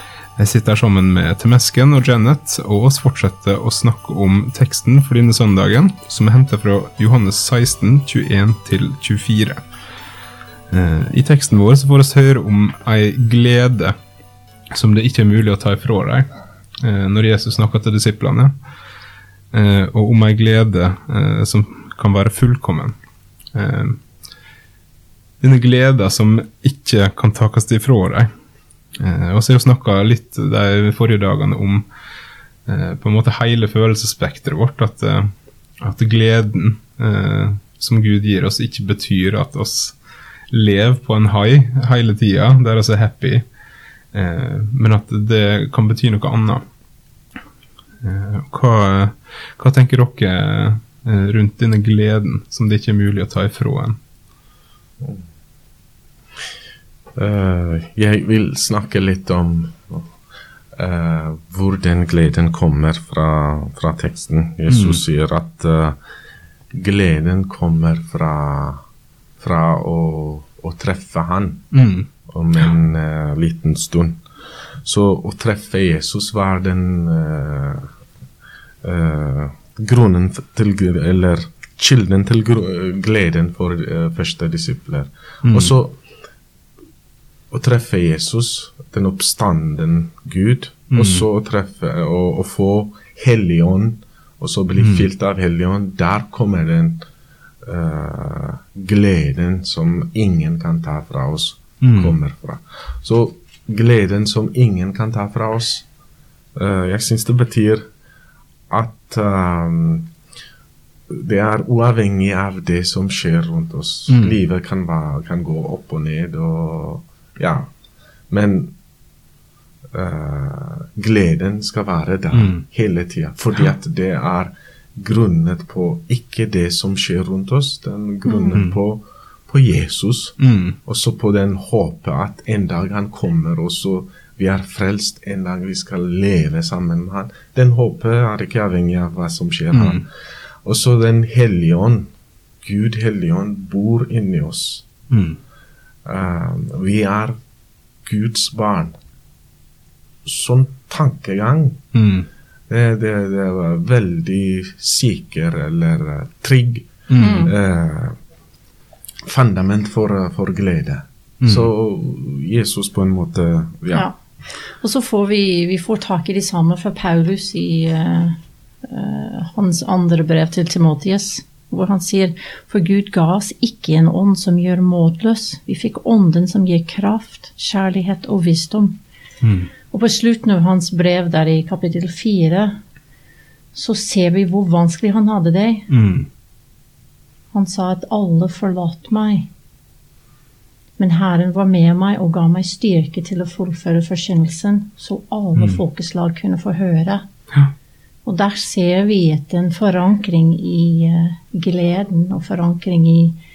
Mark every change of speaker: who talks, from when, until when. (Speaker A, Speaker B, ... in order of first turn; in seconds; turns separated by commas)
Speaker A: 0.4-9.6, Speaker A: 10.7-13.9, Speaker A: 14.7-16.3, Speaker A: 16.8-18.5, Speaker A: 19.5-22.9, Speaker A: 23.5-24.0, Speaker A: 25.4-28.3, Speaker A: 29.0-31.9, Speaker A: 32.7-35.3, Speaker A: 35.8-40.0, Speaker A: 40.5-43.5, Speaker A: 44.1-46.6, Speaker A: 48.0-54.0, Speaker B: 57.1-60.1, Speaker B: 60.8-66.0, Speaker A: 64.7-65.0, Speaker B: 66.7-68.8, Speaker B: 69.4-71.7, Speaker A: 71.7-72.1, Speaker B: 72.3-74.2, Speaker B: 74.8-77.9, Speaker B: 78.8-86.0, Speaker A: 85.4-85.7, Speaker B: 87.5-97.0, Speaker A: 90.9-91.2, Speaker A: 94.8-95.1, Speaker B: 97.6-105.8, Speaker A: 101.8-102.2, Speaker B: 106.5-107.8, Speaker B: 108.7-110.1, Speaker B: 111.1-117.7, Speaker A: 114.1-114.4, Speaker B: 118.3-118.7, Speaker B: 119.9-140.1, Speaker A: 122.3-122.6, Speaker C: 128.2-128.6, Speaker A: 128.5-128.8, Speaker A: 130.4-130.8, Speaker A: 139.7-140.0, Speaker B: 140.6-142.1, Speaker B: 142.6-144.9, Speaker A: 145.1-145.4, Speaker B: 146.1-147.4, Speaker B: 148.0-148.9, Speaker B: 150.2-151.8, Speaker A: 151.9-152.3, Speaker B: 152.7-158.2, Speaker A: 157.1-157.5, Speaker C: 157.2-157.5, Speaker B: 159.2-164.1, Speaker A: 161.4-161.7, Speaker C: 163.9-179.0, Speaker A: 179.4-179.7, Speaker C: 179.9-182.7, Speaker C: 183.7-185.9, Speaker A: 185.9-186.3, Speaker C: 187.5-189.5, Speaker C: 191.0-197.2, Speaker C: 198.2-203.4